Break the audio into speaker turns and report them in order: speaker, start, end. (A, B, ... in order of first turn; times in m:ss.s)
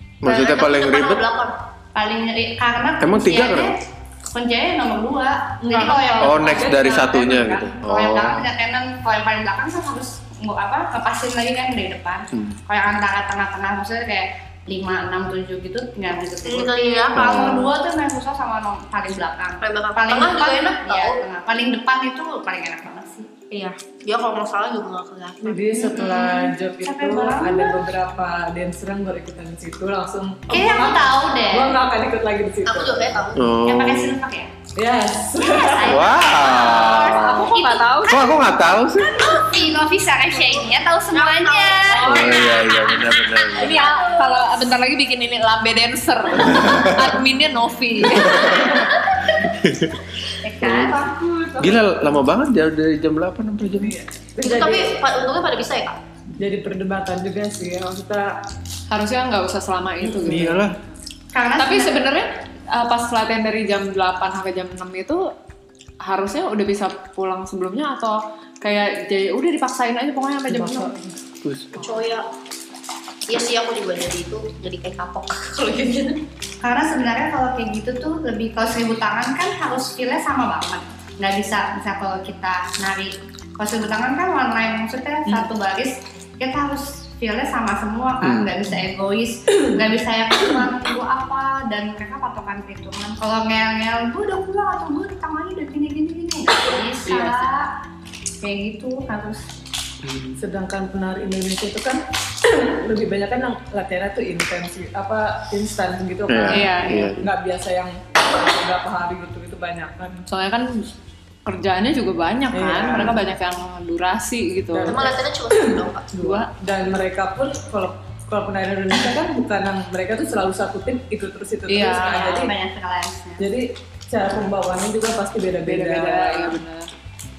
0:00.2-0:01.2 A
0:00.2-0:01.5 B
0:01.9-0:23.3 C
0:03.0-0:03.8 A
0:05.7-0:06.0 D
0:05.8-0:07.1 E
0:06.2-0:08.5 A
0:16.4-0:17.2 B
0:17.1-0:17.7 A
0:19.6-0:21.2 B
0:23.5-0:25.8 B
0:25.4-0:33.2 E
0:25.8-0:27.8 C
0:30.5-0:31.8 C
0:32.6-0:33.5 B
0:33.4-0:34.2 A
0:33.6-0:34.5 C
0:34.8-0:36.0 E
0:35.7-0:42.7 C
0:35.8-0:37.5 A
0:36.3-0:38.3 D
0:38.1-0:39.2 A
0:41.1-0:44.2 B
0:41.9-0:42.5 D
0:42.0-0:43.8 A
0:43.5-0:48.9 D
0:43.7-0:44.4 C
0:46.4-0:47.2 A
0:48.1-0:48.8 A
0:49.6-0:50.0 A
0:50.4-0:51.0 C
0:50.6-0:51.0 A
0:50.9-0:51.8 E
0:51.6-0:53.9 A
0:53.8-0:55.0 E
0:54.4-0:56.0 B
0:56.4-0:58.3 E
0:58.9-1:00.8 D
1:00.2-1:00.8 A
1:01.3-1:02.2 C
1:01.6-1:05.3 D
1:06.0-1:10.9 D
1:10.5-1:11.1 E
1:11.4-1:11.8 A
1:11.8-1:12.3 B
1:13.3-1:16.2 B
1:16.6-1:37.7 C
1:28.2-1:28.6 A
1:37.0-1:37.4 B
1:38.4-1:39.4 C
1:40.0-1:40.3 A
1:40.3-1:50.2 E
1:46.3-1:47.3 A
1:46.5-1:47.2 D
1:50.3-1:50.8 D
1:51.4-1:55.1 D
1:52.5-1:53.2 E
1:54.7-2:02.5 E
1:54.9-1:56.1 B
1:56.2-1:56.5 D
2:01.7-2:02.5 D
2:01.9-2:03.5 C
2:03.4-2:06.6 E
2:05.6-2:06.9 D